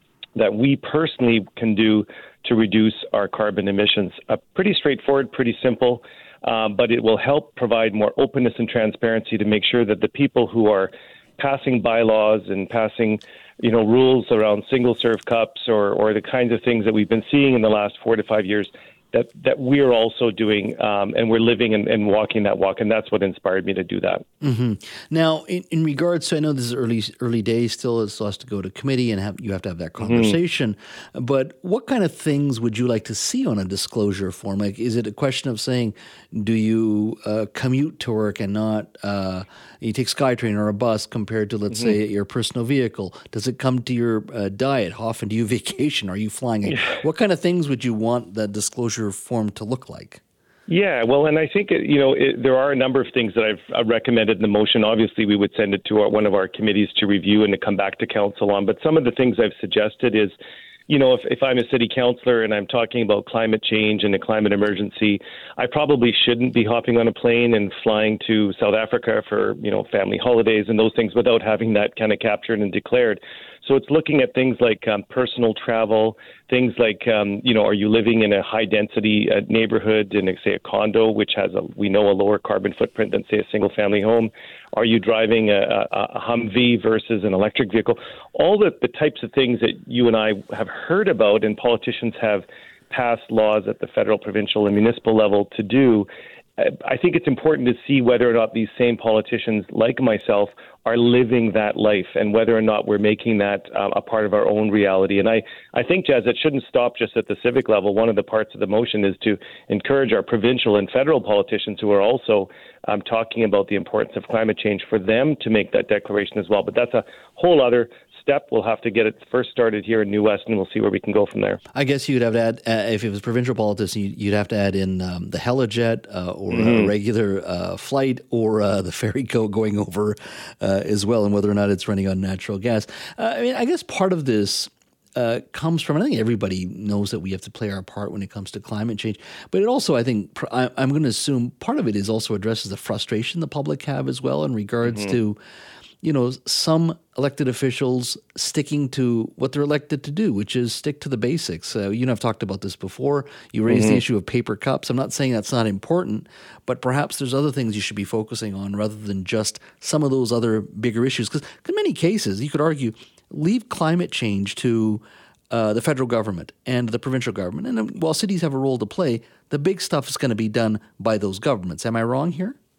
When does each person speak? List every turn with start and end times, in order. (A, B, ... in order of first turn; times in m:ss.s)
0:00.4-0:24.2 A
0:24.4-0:50.2 B
0:30.0-0:30.4 A
0:50.7-1:00.3 A
1:00.9-2:01.6 A
2:01.7-2:25.4 B
2:06.5-2:06.9 A
2:24.8-2:25.2 A
2:26.0-2:52.6 B
2:33.7-2:34.0 A